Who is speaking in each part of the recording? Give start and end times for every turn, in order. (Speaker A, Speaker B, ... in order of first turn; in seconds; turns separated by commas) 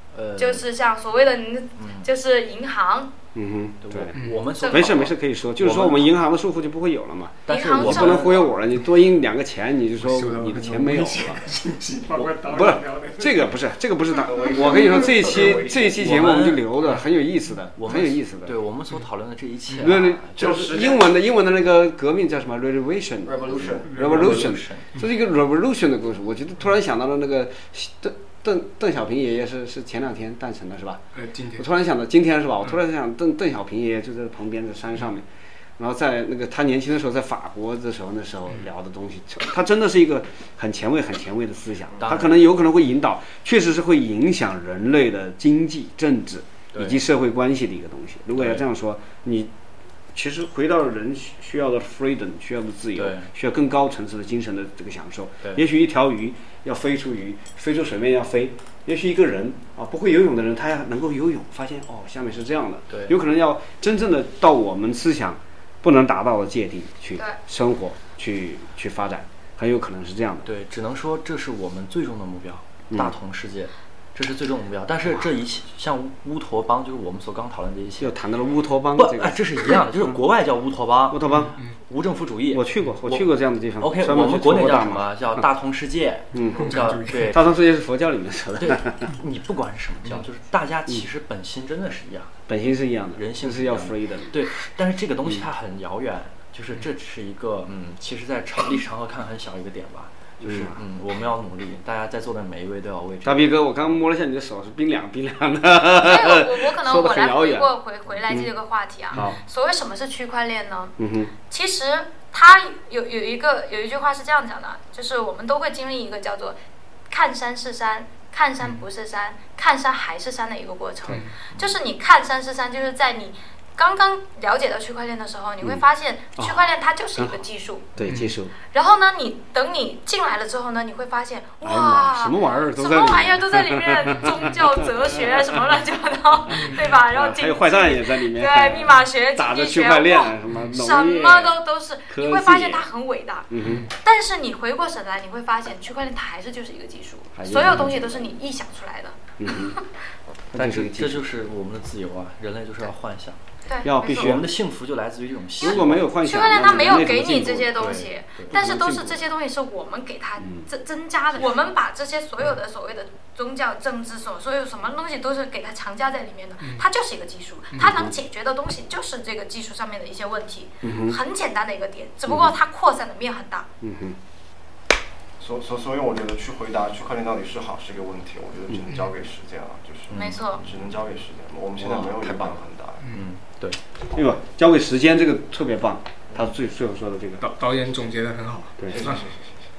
Speaker A: 0.1-0.7, Speaker B: 0.4-3.1, Speaker A: 1.8-2.1, Speaker C: 3.3-4.1, Speaker A: 3.8-6.1, Speaker D: 4.2-4.4, Speaker B: 4.6-5.0, Speaker C: 4.7-11.4, Speaker A: 7.5-8.5, Speaker B: 7.5-8.5, Speaker D: 10.0-13.4, Speaker C: 12.5-18.5, Speaker E: 14.2-15.9, Speaker A: 14.5-16.7, Speaker A: 17.8-20.6, Speaker C: 19.8-31.0, Speaker E: 20.4-21.1, Speaker E: 23.2-24.0, Speaker A: 23.9-25.0, Speaker D: 23.9-24.4, Speaker D: 31.1-31.7, Speaker C: 31.6-35.2, Speaker C: 35.8-49.5, Speaker A: 42.0-42.5, Speaker A: 46.7-47.0, Speaker A: 48.4-48.6, Speaker C: 50.1-70.5, Speaker A: 53.0-53.3, Speaker A: 62.9-63.2, Speaker A: 70.4-78.2, Speaker C: 78.0-80.2, Speaker A: 78.9-87.4, Speaker C: 81.1-81.5, Speaker D: 81.3-81.7, Speaker C: 82.5-85.4, Speaker C: 86.3-89.2, Speaker D: 86.6-87.2, Speaker A: 88.6-92.3, Speaker C: 92.5-94.4, Speaker A: 93.1-103.6, Speaker C: 100.4-100.8, Speaker C: 103.2-107.7, Speaker B: 106.0-128.0, Speaker C: 111.0-111.3, Speaker C: 126.4-127.4, Speaker C: 127.9-128.5, Speaker D: 128.0-128.3, Speaker B: 128.6-150.0, Speaker C: 131.6-135.7, Speaker C: 136.4-142.9, Speaker D: 136.5-136.9, Speaker C: 143.5-143.8, Speaker D: 143.6-143.9, Speaker C: 147.3-148.3, Speaker C: 149.4-149.8, Speaker C: 150.5-151.3, Speaker A: 150.5-153.4, Speaker B: 153.7-154.4, Speaker C: 153.8-154.5, Speaker A: 154.0-156.1, Speaker C: 155.6-157.8, Speaker B: 155.6-173.7, Speaker A: 157.7-158.6, Speaker C: 158.5-159.2, Speaker C: 167.8-168.1, Speaker C: 170.8-171.2, Speaker C: 172.3-172.6, Speaker C: 173.8-174.2, Speaker E: 175.4-183.0, Speaker A: 180.1-180.7, Speaker B: 180.1-180.7, Speaker A: 181.8-182.5, Speaker A: 183.1-183.8, Speaker C: 184.1-187.4, Speaker D: 187.4-189.3, Speaker C: 188.8-189.2, Speaker E: 189.0-189.3